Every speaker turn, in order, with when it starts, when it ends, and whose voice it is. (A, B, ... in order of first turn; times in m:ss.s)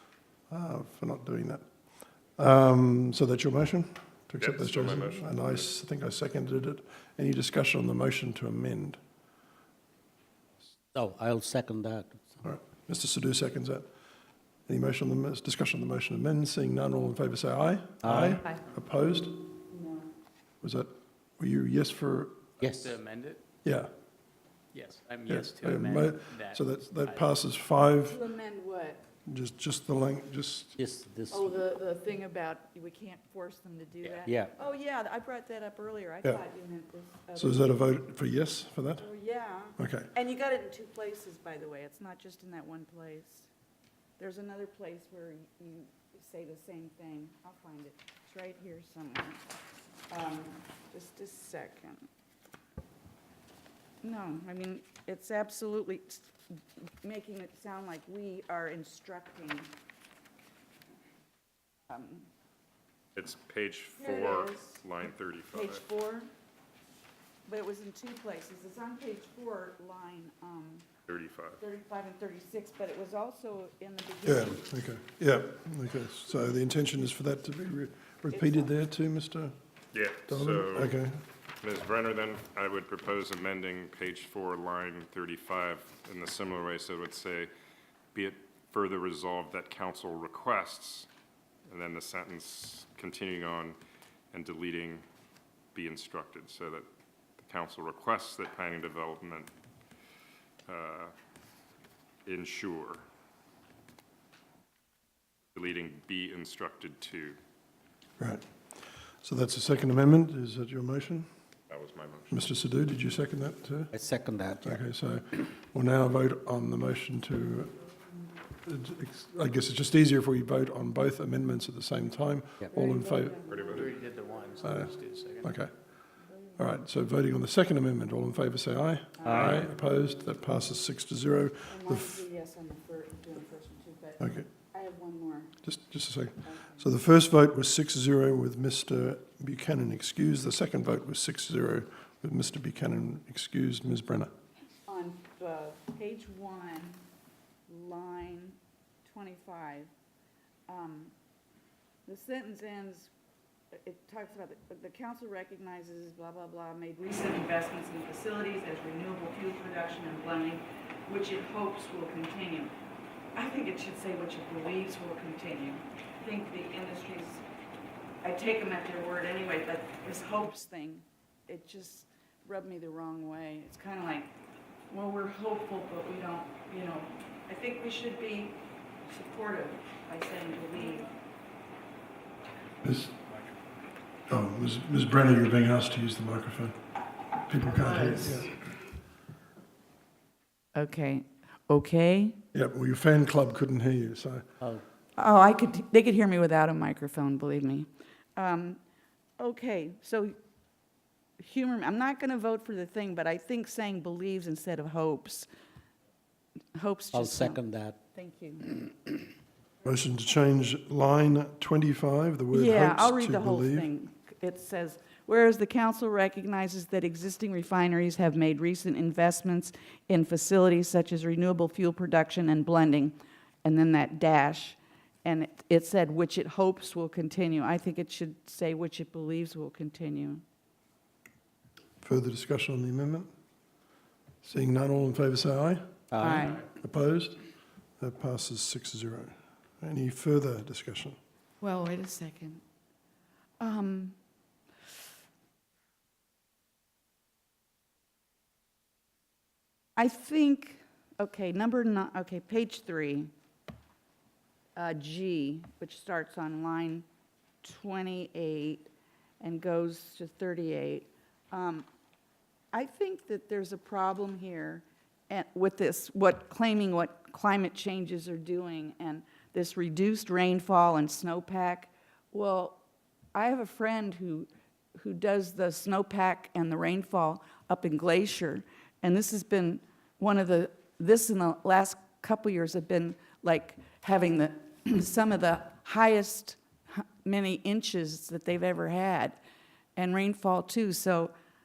0:00.5-0:01.6 A
0:02.4-0:09.0 A
0:04.4-0:05.7 B
0:10.9-0:12.4 C
0:12.4-0:13.9 A
0:14.7-0:19.5 A
0:18.0-0:18.4 C
0:19.7-0:20.1 D
0:20.6-0:22.4 A
0:22.6-0:22.9 C
0:22.6-0:23.4 E
0:23.6-0:23.9 A
0:24.7-0:27.4 E
0:25.3-0:28.2 A
0:28.1-0:29.0 D
0:29.3-0:30.8 A
0:30.8-0:31.6 C
0:31.3-0:37.8 D
0:34.0-0:34.5 C
0:37.4-0:39.1 A
0:39.0-0:43.5 D
0:39.8-0:40.1 A
0:44.2-0:49.4 D
0:50.1-0:52.1 D
0:54.0-0:56.4 D
0:56.9-0:59.7 D
1:01.9-1:02.3 D
1:03.2-1:05.8 B
1:04.0-1:04.9 D
1:05.5-1:06.3 D
1:07.5-1:10.9 D
1:11.1-1:11.6 B
1:11.6-1:14.6 D
1:14.2-1:19.6 A
1:18.3-1:18.7 D
1:19.9-1:21.0 B
1:20.3-1:21.2 A
1:21.6-1:27.5 B
1:28.1-1:31.1 B
1:31.7-1:33.8 B
1:34.3-1:35.0 B
1:35.7-1:36.9 B
1:37.4-1:39.5 B
1:40.7-1:41.1 B
1:42.3-1:43.0 B
1:45.6-1:47.4 B
1:48.2-1:48.5 A
1:49.2-1:51.3 A
1:51.7-1:52.5 B
1:52.3-1:53.9 A
1:53.9-1:54.8 C
1:54.6-1:57.8 A
1:58.6-2:03.5 A
2:02.7-2:04.0 D
2:03.5-2:03.9 B
2:03.7-2:05.5 E
2:04.6-2:05.7 A
2:06.2-2:06.6 D
2:06.6-2:12.2 A
2:09.2-2:09.5 D
2:09.2-2:09.6 C
2:11.7-2:15.6 D
2:14.2-2:14.5 A
2:15.6-2:24.3 A
2:16.4-2:16.9 D
2:24.9-2:27.0 D
2:27.7-2:29.9 D
2:30.7-2:31.1 D
2:32.1-2:33.1 D
2:33.7-2:42.8 D
2:43.4-2:47.4 D
2:48.2-2:54.3 D
2:54.9-3:01.1 D
3:02.8-3:03.2 A
3:04.3-3:06.8 A
3:07.5-3:08.6 A
3:08.0-3:08.4 D
3:10.8-3:12.4 D
3:12.5-3:14.5 A
3:15.2-3:18.8 D
3:19.4-3:20.4 D
3:21.4-3:25.5 D
3:26.8-3:27.6 D
3:27.1-3:28.0 C
3:28.2-3:28.9 D
3:29.8-3:33.9 A
3:32.5-3:50.4 D
3:52.0-3:53.3 A
3:54.4-3:57.4 A
3:56.1-3:56.6 C
3:56.2-3:56.6 D
3:58.0-4:01.2 A
4:01.6-4:02.6 D
4:03.6-4:04.2 D
4:10.0-4:13.3 D
4:14.8-4:17.0 D
4:17.6-4:21.9 D
4:22.7-4:32.8 D
4:33.3-4:49.4 D
4:50.0-4:51.3 D